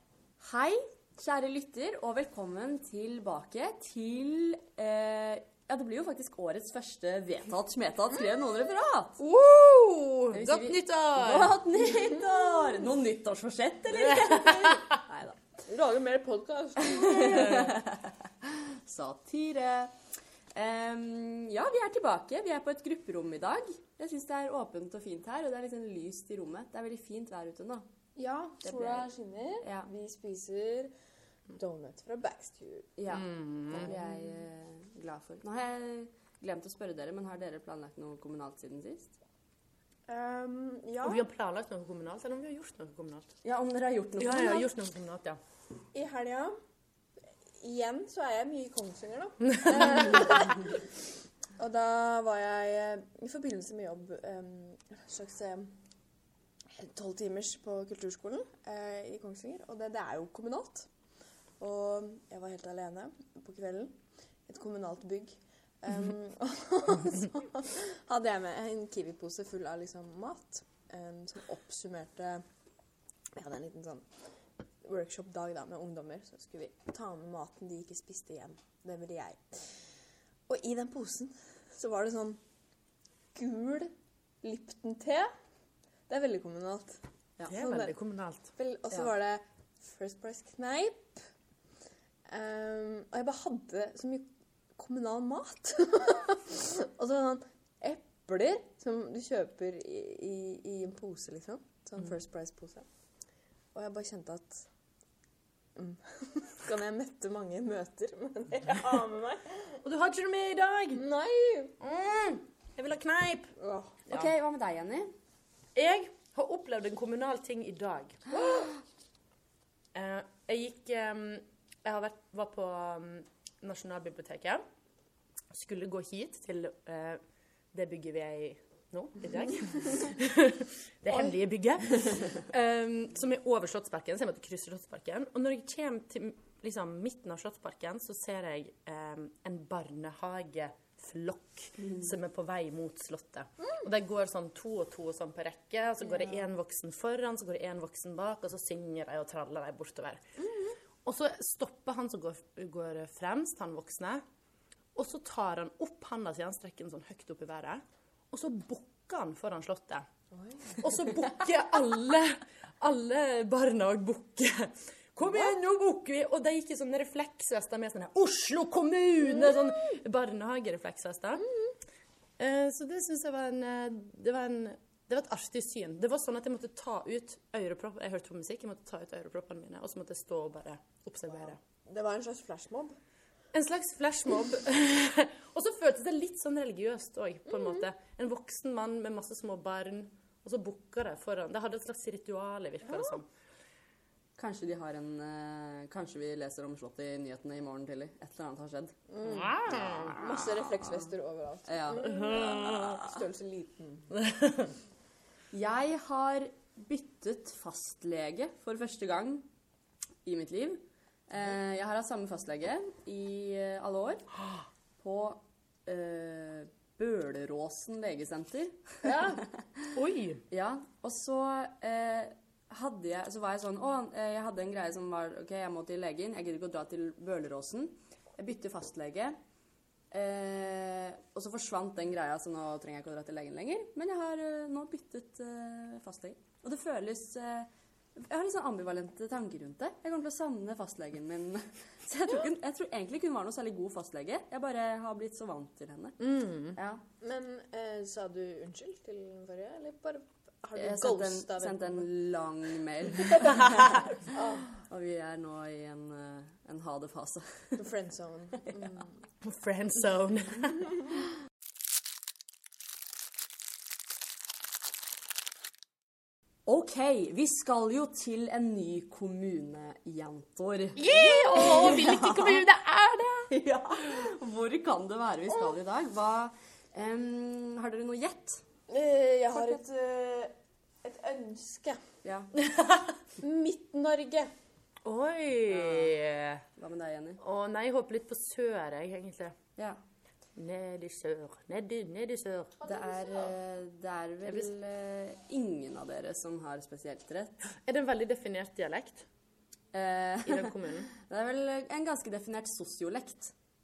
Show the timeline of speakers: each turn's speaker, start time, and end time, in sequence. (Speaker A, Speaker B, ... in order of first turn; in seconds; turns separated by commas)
Speaker A: 0.4-9.2, Speaker B: 9.2-11.6, Speaker A: 10.3-15.5, Speaker C: 15.7-17.8, Speaker A: 16.8-19.9, Speaker A: 20.5-27.9, Speaker C: 28.2-30.9, Speaker A: 28.6-29.1, Speaker A: 29.6-29.9, Speaker C: 31.6-32.9, Speaker A: 33.0-39.1, Speaker B: 33.1-33.9, Speaker C: 33.8-34.2, Speaker C: 40.1-41.2, Speaker B: 41.0-43.3, Speaker A: 43.4-44.7, Speaker B: 44.2-45.4, Speaker C: 45.9-46.5, Speaker C: 47.6-50.8, Speaker C: 51.6-55.7, Speaker C: 56.7-60.9, Speaker C: 61.6-64.0, Speaker C: 64.5-72.4, Speaker C: 73.4-74.1, Speaker C: 74.8-79.8, Speaker C: 80.5-82.4, Speaker C: 83.3-83.9, Speaker C: 84.4-85.3, Speaker C: 86.1-88.0, Speaker B: 87.5-88.5, Speaker C: 88.6-91.2, Speaker C: 92.3-102.9, Speaker C: 103.7-104.7, Speaker C: 105.8-109.8, Speaker B: 109.8-111.0, Speaker C: 110.9-111.8, Speaker B: 111.8-113.5, Speaker C: 113.6-113.9, Speaker A: 114.1-115.1, Speaker B: 115.8-118.2, Speaker C: 118.3-118.7, Speaker B: 119.9-124.6, Speaker B: 125.5-127.2, Speaker B: 127.7-150.2, Speaker B: 151.0-154.2, Speaker B: 154.9-160.1, Speaker C: 160.3-160.8, Speaker B: 160.8-171.5, Speaker B: 172.4-181.6, Speaker C: 181.9-183.0, Speaker B: 183.5-193.3, Speaker A: 194.4-198.9, Speaker C: 199.1-204.1, Speaker B: 199.2-200.3, Speaker A: 201.7-202.2, Speaker B: 202.0-203.1, Speaker B: 204.1-204.7, Speaker A: 205.5-209.5, Speaker A: 210.2-214.3, Speaker A: 215.0-219.9, Speaker B: 219.1-219.4, Speaker B: 219.9-220.4, Speaker A: 220.5-229.4, Speaker A: 230.1-246.2, Speaker B: 246.2-246.7, Speaker A: 246.8-247.0, Speaker C: 247.2-252.1, Speaker A: 250.8-254.1, Speaker C: 254.3-254.7, Speaker A: 254.9-257.8, Speaker C: 257.8-259.1, Speaker B: 259.4-260.9, Speaker A: 266.7-272.6, Speaker B: 271.0-273.5, Speaker A: 273.5-278.6, Speaker C: 278.9-282.0, Speaker A: 282.2-282.5, Speaker B: 282.6-283.1, Speaker C: 283.4-284.5, Speaker B: 285.0-286.6, Speaker A: 286.8-287.4, Speaker B: 287.4-289.6, Speaker B: 290.6-292.8, Speaker C: 292.8-293.5, Speaker A: 292.9-297.6, Speaker B: 297.9-299.2, Speaker A: 299.9-303.5, Speaker B: 300.4-301.1